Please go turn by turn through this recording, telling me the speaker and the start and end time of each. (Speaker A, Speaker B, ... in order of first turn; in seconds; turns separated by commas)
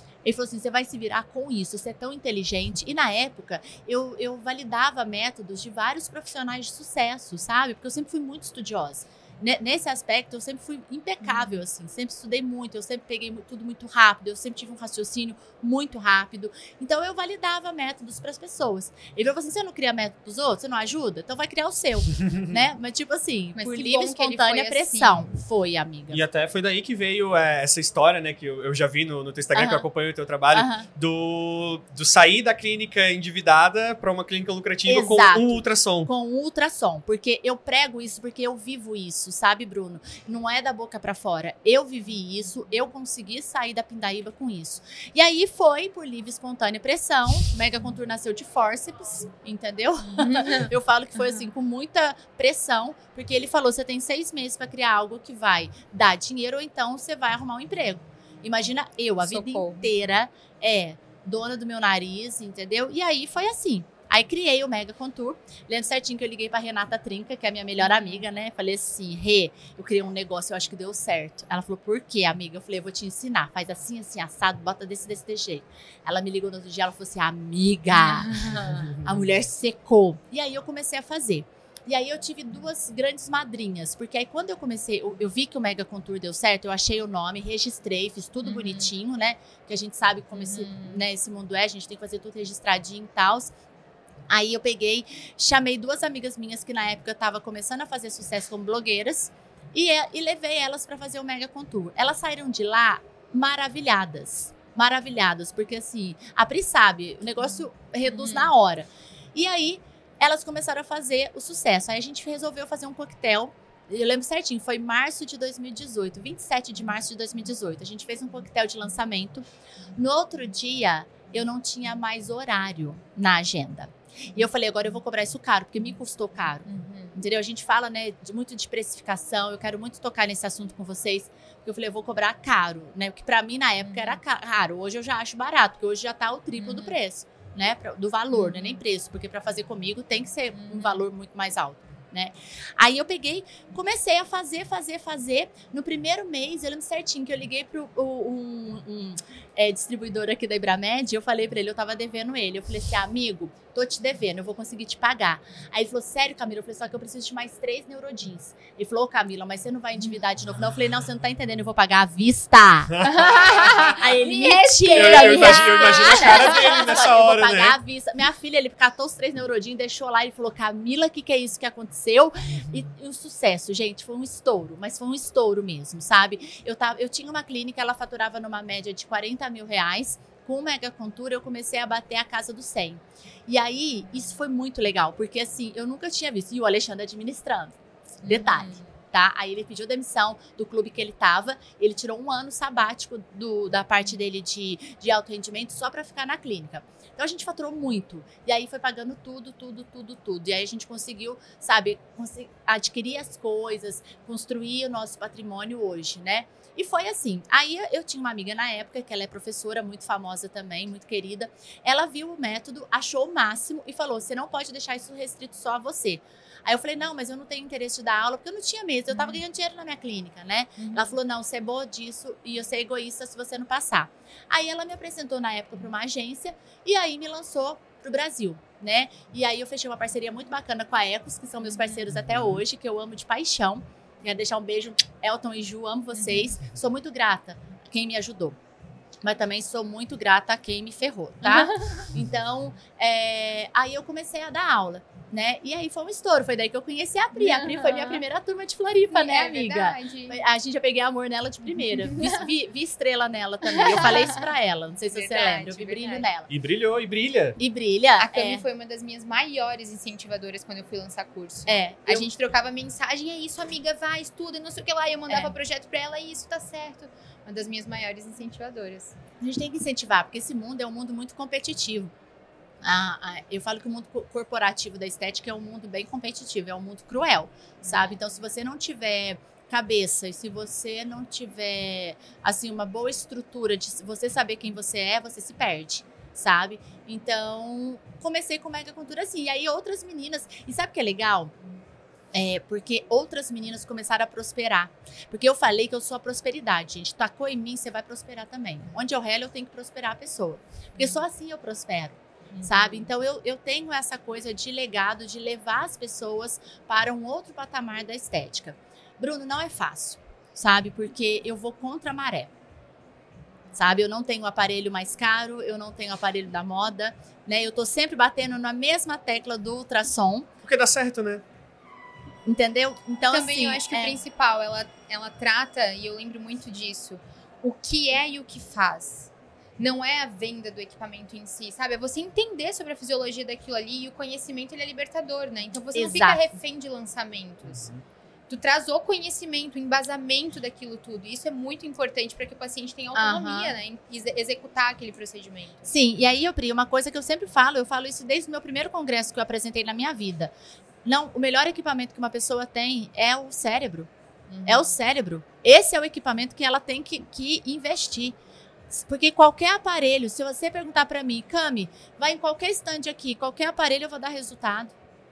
Speaker A: 0.2-26.2, Speaker B: 23.6-25.2, Speaker C: 26.1-36.1, Speaker A: 29.5-29.8, Speaker A: 30.5-30.9, Speaker A: 34.9-93.5, Speaker B: 50.2-50.7, Speaker B: 59.2-59.9, Speaker B: 67.9-68.2, Speaker B: 77.9-78.9, Speaker B: 88.4-88.9, Speaker B: 90.3-91.0, Speaker A: 94.3-187.7, Speaker B: 108.1-108.5, Speaker B: 126.7-127.2, Speaker B: 133.8-134.2, Speaker B: 136.6-136.9, Speaker B: 138.3-138.8, Speaker B: 140.5-141.0, Speaker B: 163.0-167.0, Speaker C: 164.9-167.8, Speaker B: 188.2-188.8, Speaker A: 188.2-238.6, Speaker B: 219.1-219.4, Speaker B: 220.8-221.1, Speaker B: 236.2-236.5, Speaker A: 239.2-256.5, Speaker B: 241.4-242.1, Speaker B: 247.4-248.2, Speaker B: 249.1-250.4, Speaker B: 252.0-252.4, Speaker B: 253.7-254.5, Speaker B: 255.1-256.2, Speaker C: 256.5-257.6, Speaker A: 257.6-258.6, Speaker B: 258.2-269.1, Speaker A: 261.7-262.3, Speaker A: 265.3-265.5, Speaker A: 269.4-272.1, Speaker A: 272.8-291.5, Speaker B: 277.8-278.1, Speaker A: 292.3-312.5, Speaker B: 302.5-303.1, Speaker A: 313.7-320.5, Speaker C: 320.6-321.4, Speaker A: 322.4-324.2, Speaker B: 323.3-337.9, Speaker A: 335.9-336.5, Speaker C: 337.7-338.0, Speaker B: 338.5-345.9, Speaker A: 343.1-343.7, Speaker A: 345.9-350.5, Speaker A: 351.0-354.1, Speaker B: 354.5-354.9, Speaker A: 354.6-358.4, Speaker A: 358.9-364.9